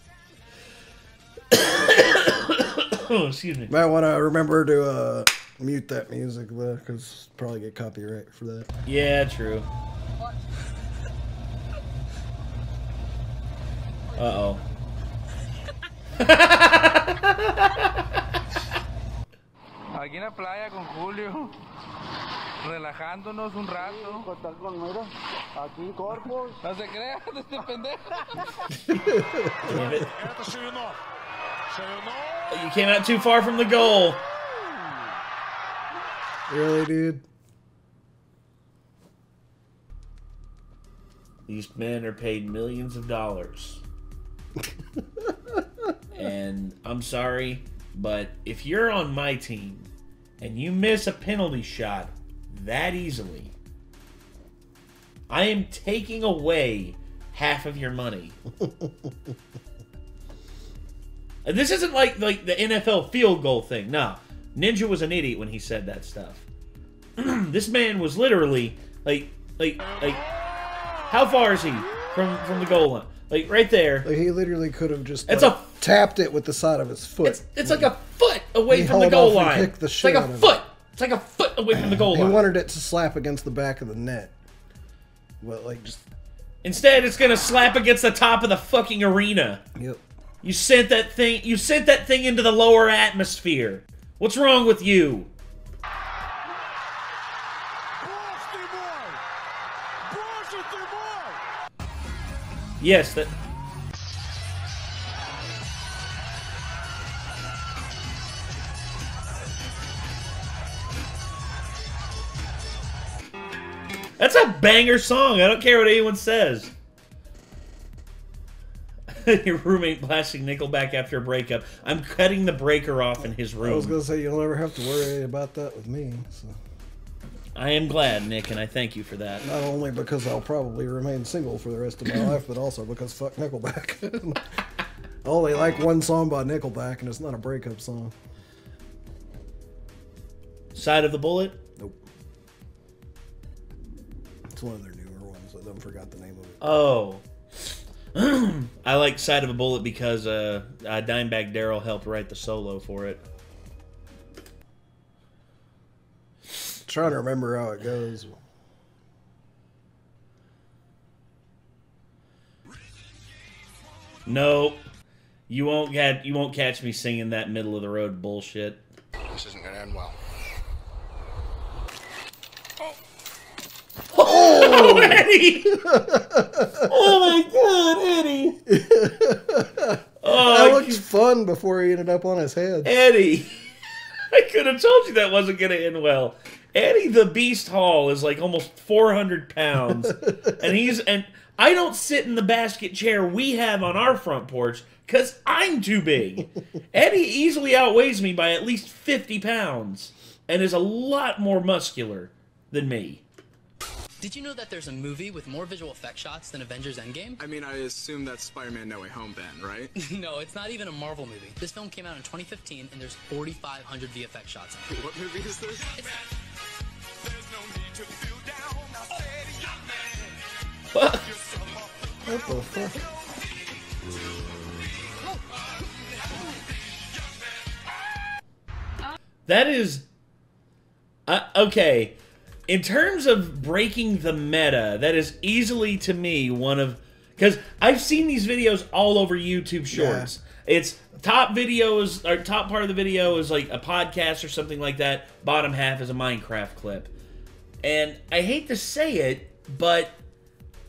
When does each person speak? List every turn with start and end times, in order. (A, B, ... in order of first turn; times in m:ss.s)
0:01.5-0:03.7 A
0:03.7-0:08.7 B
0:08.9-0:09.7 A
0:14.2-0:14.6 A
0:16.2-0:17.9 A
0:19.9-0:21.5 C
0:22.6-0:24.3 C
0:26.2-0:28.4 C
0:29.0-0:29.8 B
0:29.7-0:30.1 A
0:30.2-0:31.0 D
0:31.8-0:32.1 D
0:32.5-0:34.2 A
0:36.5-0:37.2 B
0:41.5-0:43.8 A
0:45.0-0:45.6 B
0:46.1-0:53.5 A
0:55.3-0:58.4 A
0:58.6-0:59.1 B
1:01.4-1:06.4 A
1:07.2-1:10.3 A
1:11.1-1:14.1 A
1:14.0-1:17.9 B
1:15.3-1:15.7 A
1:17.2-1:22.4 A
1:18.7-1:20.6 B
1:21.7-1:24.4 B
1:25.4-1:26.0 B
1:26.6-1:29.6 A
1:29.8-1:30.0 B
1:30.4-1:35.3 A
1:38.0-1:39.2 D
1:40.1-1:41.4 D
1:42.8-1:43.3 A
1:54.2-1:56.7 A
1:59.1-2:04.0 A
2:03.6-2:06.6 B
2:07.6-2:09.4 A
2:09.4-2:14.6 B
2:15.2-2:18.1 B
2:20.8-2:21.6 A
2:21.8-2:22.0 B
2:24.5-2:26.7 B
2:26.6-2:27.2 A
2:28.1-2:33.2 A
2:36.8-2:38.4 B
2:44.3-2:44.9 A
2:45.5-2:48.8 A
2:49.3-2:50.1 D
2:54.1-2:55.8 A
2:54.2-2:56.9 B
2:56.9-2:58.6 A
2:58.7-3:02.9 B
3:00.2-3:01.0 A
3:02.8-3:03.6 A
3:04.3-3:23.2 A
3:09.9-3:10.5 B
3:24.2-3:27.4 E
3:27.4-3:29.9 D
3:30.0-3:34.8 E
3:34.9-3:36.2 D
3:37.2-3:40.4 D
3:40.9-3:41.2 A
3:41.1-3:43.6 D
3:42.2-3:43.0 B
3:45.0-3:47.7 D
3:49.5-3:50.0 A
3:51.3-3:52.1 A
3:52.7-4:07.1 A
3:59.9-4:00.3 B
4:07.8-4:10.2 A